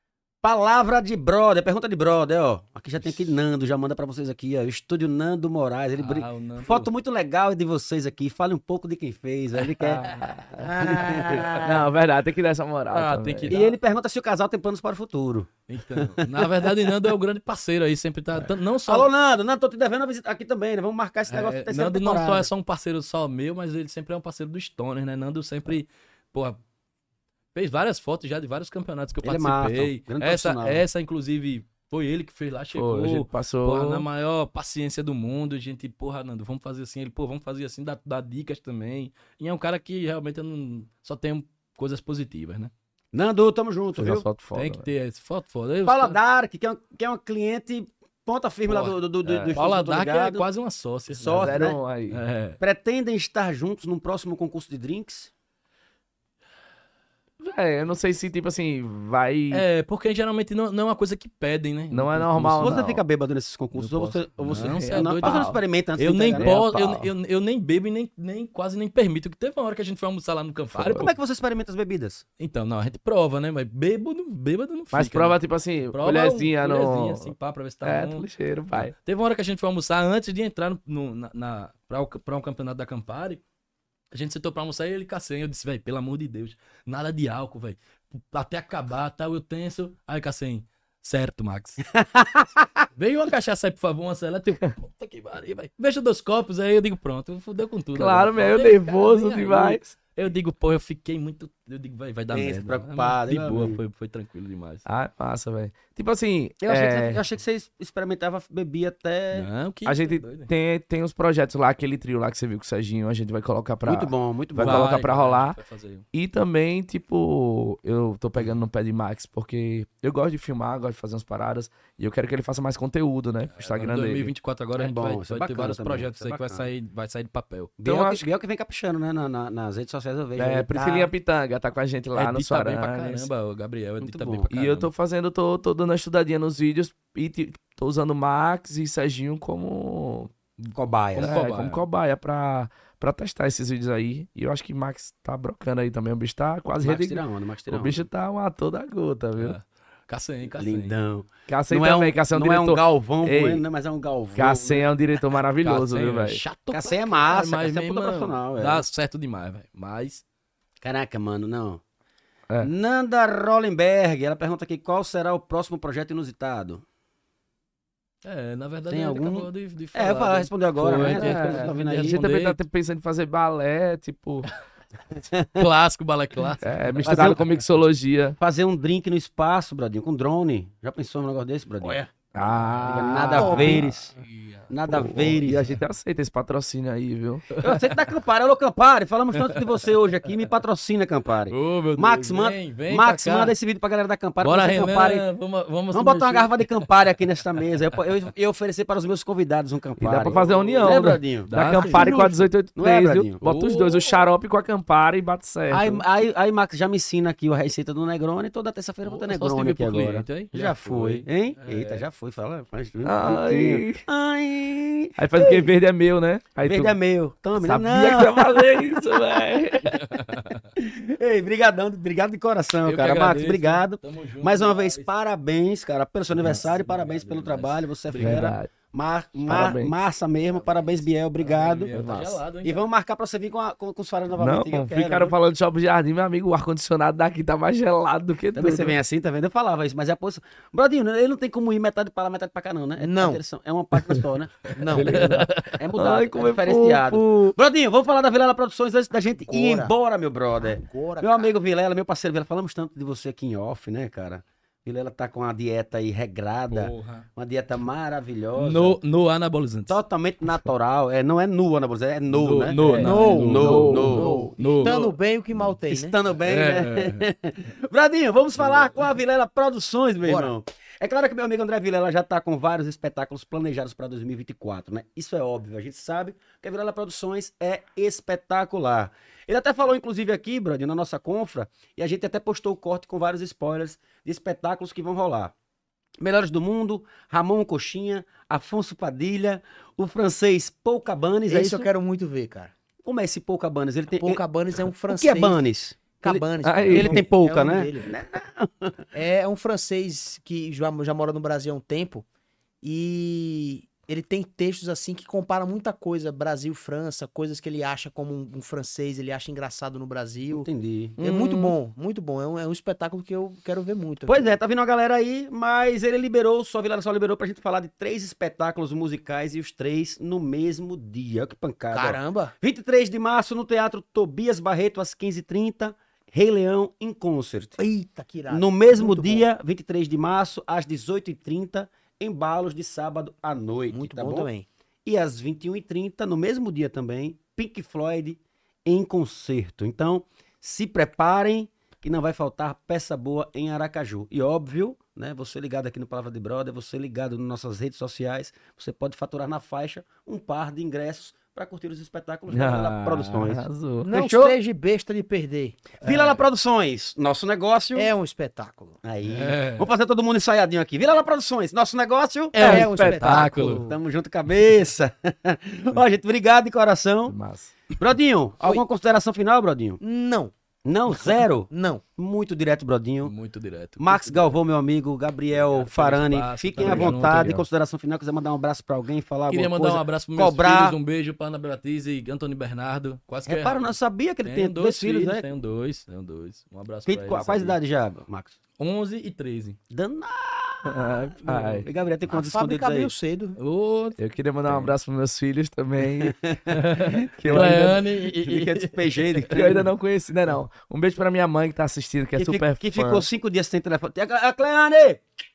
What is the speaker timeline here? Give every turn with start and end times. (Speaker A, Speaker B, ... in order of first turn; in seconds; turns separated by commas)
Speaker A: 0.4-10.0, Speaker B: 6.0-6.9, Speaker C: 9.8-10.8, Speaker D: 10.6-11.8, Speaker A: 10.6-11.7, Speaker C: 11.6-13.6, Speaker B: 12.9-13.7, Speaker A: 13.5-16.9, Speaker B: 15.7-19.1, Speaker A: 18.8-22.5, Speaker B: 21.3-26.6, Speaker B: 27.5-42.7, Speaker A: 29.2-30.8, Speaker C: 32.7-34.1, Speaker A: 43.1-44.3, Speaker C: 44.0-44.8, Speaker B: 44.5-46.2, Speaker A: 45.9-50.5, Speaker B: 48.7-49.0, Speaker C: 49.2-49.5, Speaker B: 49.5-52.6, Speaker A: 51.1-51.8, Speaker C: 51.3-52.2, Speaker A: 52.6-55.3, Speaker C: 57.4-59.6, Speaker B: 59.5-62.8, Speaker C: 61.9-63.0, Speaker A: 62.6-66.6, Speaker C: 63.8-65.6, Speaker B: 64.4-71.1, Speaker C: 66.3-67.1, Speaker C: 70.8-71.1, Speaker A: 70.8-72.2, Speaker B: 72.4-75.4, Speaker C: 74.9-78.9, Speaker B: 75.9-83.4, Speaker B: 84.1-91.8, Speaker A: 92.0-92.7, Speaker B: 93.0-104.8, Speaker C: 98.0-99.9, Speaker A: 102.3-103.8, Speaker C: 104.9-107.2, Speaker A: 106.6-109.5, Speaker B: 109.3-110.5, Speaker C: 109.9-115.6, Speaker A: 113.8-115.0, Speaker B: 114.6-116.1, Speaker C: 116.1-124.3, Speaker B: 123.5-127.8, Speaker A: 124.8-126.7, Speaker A: 127.8-131.1, Speaker C: 127.8-128.2, Speaker C: 130.4-133.3, Speaker B: 132.1-134.9, Speaker A: 134.0-134.5, Speaker C: 134.5-140.3, Speaker B: 140.6-141.8, Speaker A: 140.8-141.4, Speaker C: 141.2-149.6, Speaker A: 146.7-148.0, Speaker B: 149.4-150.9, Speaker A: 150.6-154.9, Speaker C: 151.5-153.7, Speaker C: 154.4-156.4, Speaker B: 155.6-160.2, Speaker A: 156.7-158.8, Speaker A: 160.8-161.8, Speaker A: 162.6-166.8, Speaker B: 168.2-172.6, Speaker A: 168.9-172.2, Speaker C: 170.8-174.5, Speaker A: 175.2-175.7, Speaker B: 175.6-177.5, Speaker C: 176.6-178.4, Speaker A: 177.0-177.4, Speaker A: 178.4-182.0, Speaker C: 182.3-187.4, Speaker A: 182.8-184.1, Speaker D: 183.3-183.8, Speaker A: 184.7-185.7, Speaker B: 187.5-188.0, Speaker A: 187.6-195.2, Speaker B: 191.5-193.6, Speaker B: 194.4-196.8, Speaker A: 195.9-203.4, Speaker C: 200.0-206.0, Speaker B: 200.1-202.4, Speaker B: 203.4-204.2, Speaker A: 205.7-215.7, Speaker B: 209.1-212.1, Speaker C: 213.0-214.0, Speaker C: 215.2-216.9, Speaker A: 216.6-219.3, Speaker C: 217.6-220.2, Speaker B: 219.9-220.7, Speaker A: 220.8-235.4, Speaker B: 222.8-225.1, Speaker B: 226.3-228.5, Speaker C: 228.2-228.7, Speaker C: 229.5-229.9, Speaker B: 230.4-232.9, Speaker C: 231.9-232.4, Speaker C: 234.4-238.9, Speaker A: 238.5-259.0, Speaker D: 243.0-243.4, Speaker D: 244.7-245.2, Speaker B: 244.9-245.8, Speaker C: 244.9-247.6, Speaker D: 249.5-249.9, Speaker D: 250.6-251.5, Speaker B: 256.7-257.3, Speaker B: 258.6-260.0, Speaker A: 259.9-265.1, Speaker B: 262.3-265.1, Speaker D: 263.0-266.2, Speaker C: 263.6-264.4, Speaker A: 265.9-285.5, Speaker B: 266.4-267.3, Speaker D: 270.2-270.5, Speaker A: 286.2-291.9, Speaker D: 291.5-292.7, Speaker A: 293.0-294.4, Speaker D: 294.2-295.6, Speaker A: 295.1-299.0, Speaker D: 296.2-298.1, Speaker C: 296.6-297.2, Speaker D: 299.1-302.2, Speaker D: 302.8-314.6, Speaker A: 310.5-311.2, Speaker B: 311.2-311.7, Speaker A: 314.3-327.8, Speaker D: 321.9-322.5, Speaker D: 327.8-329.5, Speaker A: 328.5-334.5, Speaker D: 333.9-334.7, Speaker A: 335.1-354.6, Speaker C: 352.5-354.2, Speaker D: 354.1-355.8, Speaker A: 356.0-358.1, Speaker B: 356.0-356.4, Speaker D: 357.9-359.0, Speaker A: 359.0-367.4, Speaker B: 359.3-359.9, Speaker B: 362.6-363.9, Speaker C: 362.6-363.8, Speaker D: 362.6-363.9, Speaker C: 367.3-367.7, Speaker A: 368.0-370.0, Speaker D: 370.0-370.5, Speaker A: 370.9-373.3, Speaker D: 371.7-372.0, Speaker B: 373.2-374.6, Speaker A: 374.0-381.0, Speaker B: 375.5-377.6, Speaker C: 376.8-377.6, Speaker B: 379.5-387.8, Speaker A: 383.5-385.5, Speaker A: 387.1-388.6, Speaker B: 388.8-389.8, Speaker A: 389.9-393.1, Speaker C: 390.9-391.9, Speaker D: 392.3-393.6, Speaker B: 393.6-394.9, Speaker C: 394.2-396.4, Speaker A: 396.0-397.7, Speaker B: 396.7-399.8, Speaker C: 397.3-398.0, Speaker A: 398.3-399.9, Speaker C: 399.5-403.2, Speaker A: 402.4-405.2